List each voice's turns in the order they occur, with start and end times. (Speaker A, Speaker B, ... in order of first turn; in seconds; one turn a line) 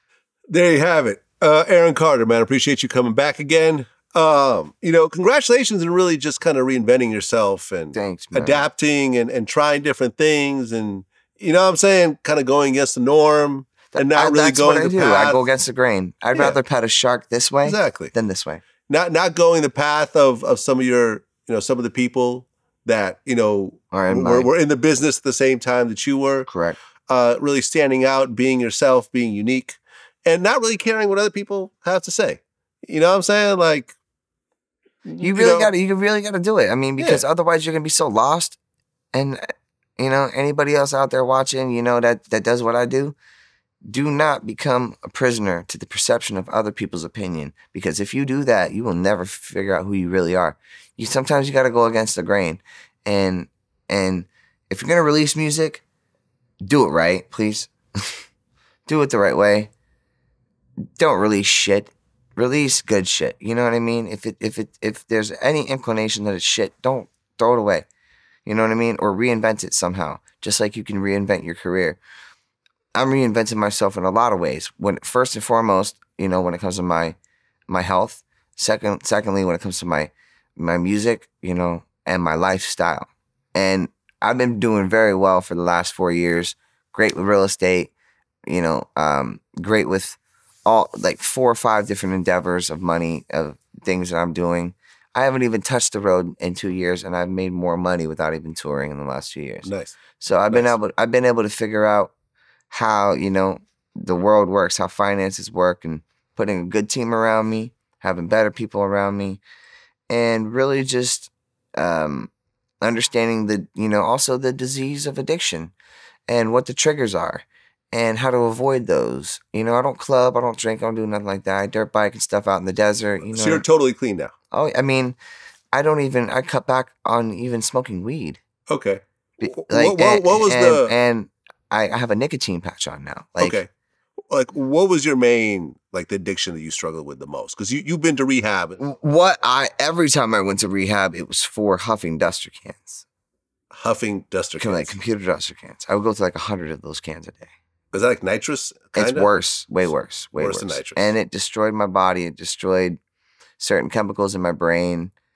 Speaker A: 0.5-15.4
Speaker B: 7.9-8.7
Speaker B: 13.9-18.6
Speaker A: 16.3-16.6
Speaker A: 17.6-18.1
Speaker A: 18.9-26.5
Speaker B: 23.9-24.5
Speaker B: 26.5-26.8
Speaker A: 27.1-34.0
Speaker A: 35.0-35.7
Speaker B: 35.2-38.6
Speaker A: 37.0-37.2
Speaker B: 39.1-43.1
Speaker B: 43.9-55.8
Speaker B: 56.6-58.2
Speaker B: 58.9-59.7
Speaker B: 61.0-67.8
Speaker B: 68.5-72.0
Speaker B: 72.9-77.2
Speaker B: 77.7-87.9
Speaker B: 88.5-102.1
Speaker A: 99.7-100.0
Speaker B: 102.7-109.4
Speaker B: 110.1-115.7
Speaker B: 116.3-123.6
Speaker A: 123.3-124.3
Speaker B: 124.5-125.2
Speaker B: 125.7-128.4
Speaker A: 128.7-130.9
Speaker B: 129.4-133.6
Speaker A: 133.4-133.7
Speaker A: 134.3-138.8
Speaker B: 138.8-143.0
Speaker A: 143.7-144.9
Speaker B: 144.6-147.5
Speaker A: 147.9-149.3
Speaker B: 148.9-153.0
Speaker A: 150.4-151.1
Speaker B: 153.6-155.1